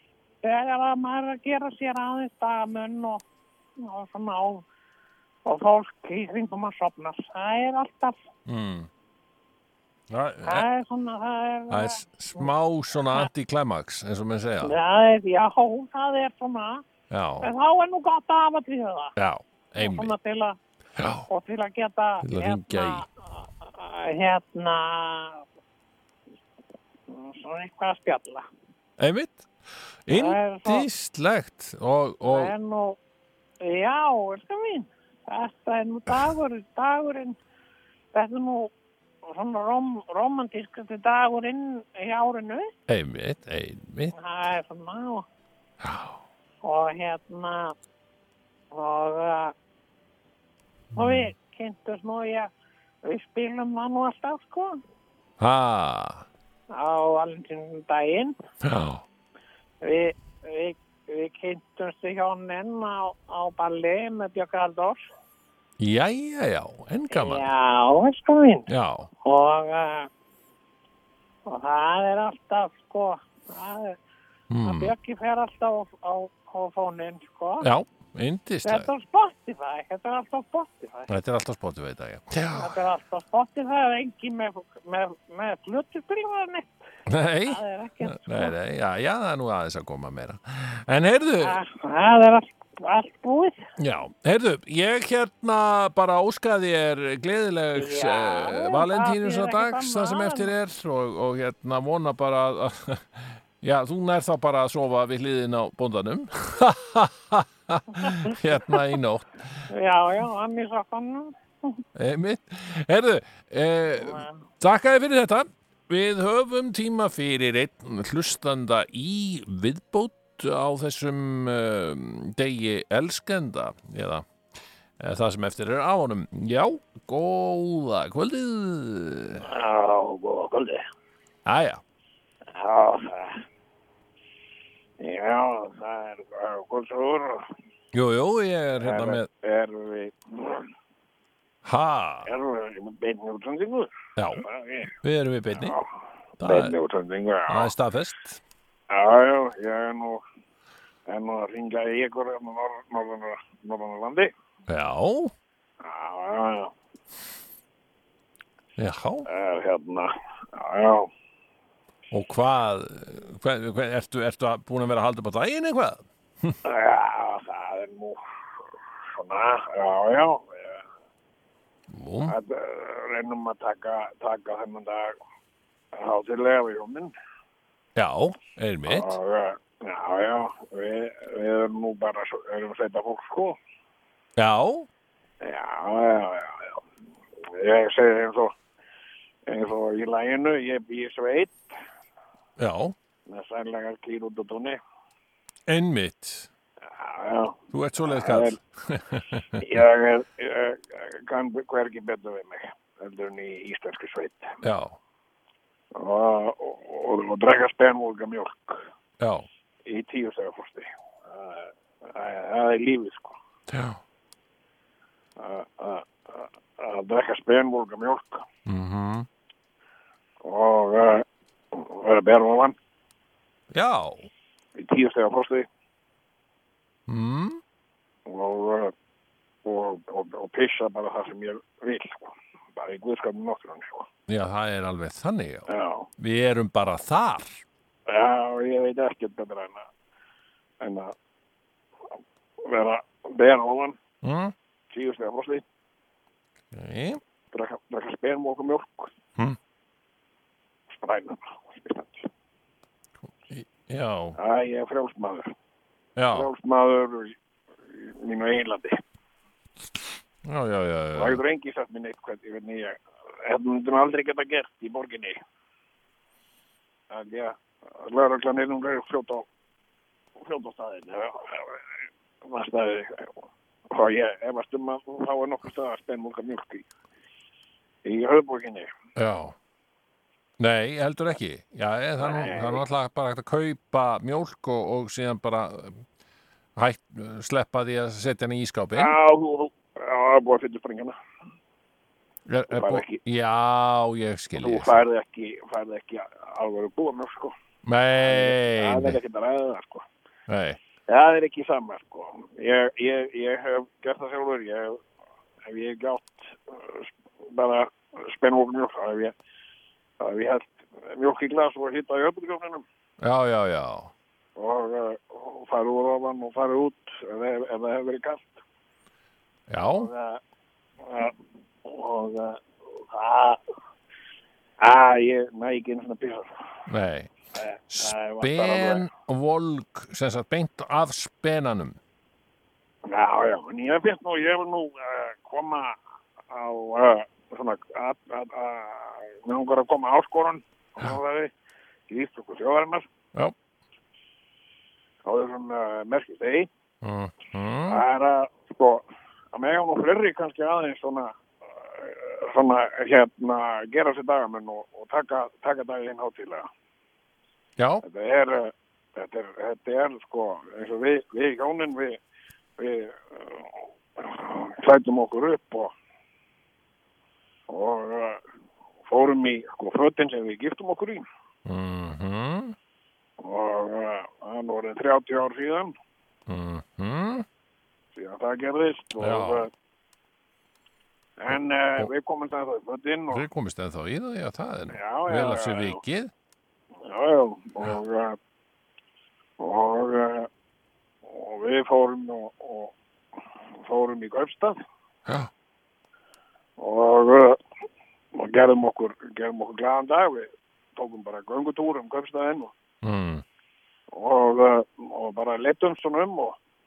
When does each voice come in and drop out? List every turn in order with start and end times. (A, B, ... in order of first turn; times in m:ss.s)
0:00.4-0:03.2 A
0:03.8-0:04.6 A
0:05.4-0:08.2 A
0:08.5-0:08.9 B
0:10.1-0:10.6 B
0:10.4-0:12.5 A
0:11.7-0:14.7 B
0:14.6-0:16.8 A
0:17.1-0:17.5 B
0:17.4-0:19.1 A
0:19.2-0:20.1 B
0:19.8-0:20.6 A
0:21.0-0:21.3 B
0:21.3-0:25.4 A
0:22.2-0:23.0 B
0:27.1-0:28.4 A
0:29.0-0:29.5 B
0:30.1-0:32.5 B
0:30.1-0:30.9 A
0:32.2-0:33.0 A
0:33.6-0:37.4 A
0:38.1-0:38.7 A
0:39.2-0:42.7 A
0:42.9-0:44.1 B
0:44.1-0:45.2 A
0:45.8-0:46.2 B
0:46.6-0:47.7 A
0:48.7-0:49.5 A
0:50.9-0:52.5 A
0:51.0-0:51.3 B
0:53.0-0:54.8 A
0:55.4-0:56.2 B
0:56.7-0:58.3 A
0:58.6-0:59.0 B
0:59.8-1:05.0 A
1:05.8-1:07.5 B
1:07.1-1:08.7 A
1:08.7-1:09.1 B
1:09.2-1:10.1 A
1:11.4-1:14.0 A
1:14.5-1:14.9 B
1:14.6-1:17.7 A
1:17.6-1:18.9 B
1:18.6-1:21.1 A
1:21.1-1:22.8 B
1:22.5-1:26.7 A
1:27.1-1:31.6 B
1:27.4-1:28.5 A
1:31.4-1:33.6 A
1:33.8-1:49.6 B
1:37.8-1:40.5 A
1:49.7-1:51.8 A
1:51.9-2:04.3 B
1:54.0-1:54.3 A
2:05.0-2:09.5 B
2:09.4-2:10.8 C
2:11.4-2:11.8 B
2:12.5-2:13.4 C
2:15.0-2:17.4 C
2:17.9-2:19.3 B
2:18.8-2:20.7 C
2:21.6-2:22.3 B
2:22.2-2:24.9 C
2:24.2-2:24.4 B
2:25.0-2:25.8 B
2:25.6-2:25.9 C
2:26.4-2:26.8 B
2:26.4-2:27.7 C
2:27.5-2:28.4 B
2:28.9-2:30.2 C
2:31.1-2:34.3 C
2:34.7-2:35.3 B
2:35.8-2:36.7 C
2:38.8-2:39.3 B
2:39.3-2:41.1 C
2:42.1-2:46.6 B
2:46.6-2:48.2 C
2:49.2-2:50.8 C
2:51.9-2:52.4 B
2:52.2-2:55.1 C
2:55.9-2:57.1 C
2:58.0-2:59.2 B
2:58.9-3:03.6 C
3:04.4-3:04.9 B
3:05.4-3:06.8 C
3:07.5-3:08.5 C
3:09.5-3:11.6 C
3:12.6-3:12.9 B
3:13.3-3:14.8 C
3:15.7-3:16.5 B
3:16.8-3:18.6 C
3:17.7-3:19.8 B
3:19.6-3:24.5 C
3:24.6-3:25.0 B
3:25.9-3:28.8 C
3:29.2-3:29.5 B
3:29.8-3:33.4 C
3:33.7-3:34.0 B
3:35.4-3:38.4 C
3:38.6-3:39.3 B
3:40.4-3:42.8 C
3:43.7-3:44.3 B
3:44.8-3:45.6 C
3:47.1-3:47.6 B
3:48.2-3:48.9 C
3:49.6-3:54.1 C
3:54.3-3:55.7 B
3:55.7-3:56.1 C
3:56.2-3:57.6 B
3:58.1-3:59.8 C
4:00.8-4:01.1 C
4:02.6-4:04.0 C
4:04.2-4:04.5 B
4:04.9-4:05.6 C
4:06.7-4:07.2 B
4:07.5-4:09.1 C
4:10.9-4:12.3 C
4:13.5-4:14.4 B
4:14.4-4:15.5 C
4:16.2-4:16.5 B
4:16.3-4:17.4 C
4:17.9-4:19.0 C
4:20.4-4:21.4 B
4:21.1-4:25.4 C
4:27.1-4:29.4 C
4:30.4-4:31.8 C
4:32.4-4:33.3 C
4:33.9-4:36.8 C
4:38.0-4:38.9 C
4:39.2-4:39.5 B
4:40.6-4:46.0 B
4:42.2-4:42.8 C
4:46.8-4:49.2 B
4:49.0-4:51.1 C
4:52.5-4:55.0 B
4:52.7-4:53.2 C
4:54.6-4:57.5 C
4:57.8-4:59.2 B
4:58.2-5:00.0 C
5:00.5-5:00.8 B
5:01.1-5:05.0 C
5:05.6-5:09.3 C
5:10.2-5:12.8 C
5:13.2-5:14.1 B
5:14.6-5:18.6 C
5:19.7-5:20.1 B
5:19.8-5:20.4 C
5:21.0-5:23.6 C
5:24.8-5:26.5 C
5:26.9-5:27.3 B
5:27.5-5:29.0 C
5:27.9-5:32.0 B
5:33.1-5:36.0 C
5:36.5-5:41.5 C
5:42.1-5:43.1 C
5:45.2-5:46.7 C
5:47.0-5:48.0 B
5:47.9-5:56.7 C
5:57.8-5:58.0 B
5:58.0-6:02.2 C
6:02.8-6:05.9 C
6:07.7-6:08.4 C
6:09.0-6:11.2 C
6:11.6-6:12.8 B
6:13.4-6:15.9 C
6:16.5-6:17.4 B
6:18.1-6:19.7 C
6:19.2-6:19.7 B
6:21.4-6:23.4 C
6:21.5-6:22.1 B
6:23.3-6:26.3 B
6:24.9-6:26.0 C
6:27.0-6:28.4 C
6:29.6-6:30.5 C
6:31.2-6:32.9 C
6:33.8-6:34.8 C
6:36.8-6:37.6 C
6:38.3-6:42.7 C
6:43.0-6:43.4 B
6:44.1-6:46.6 C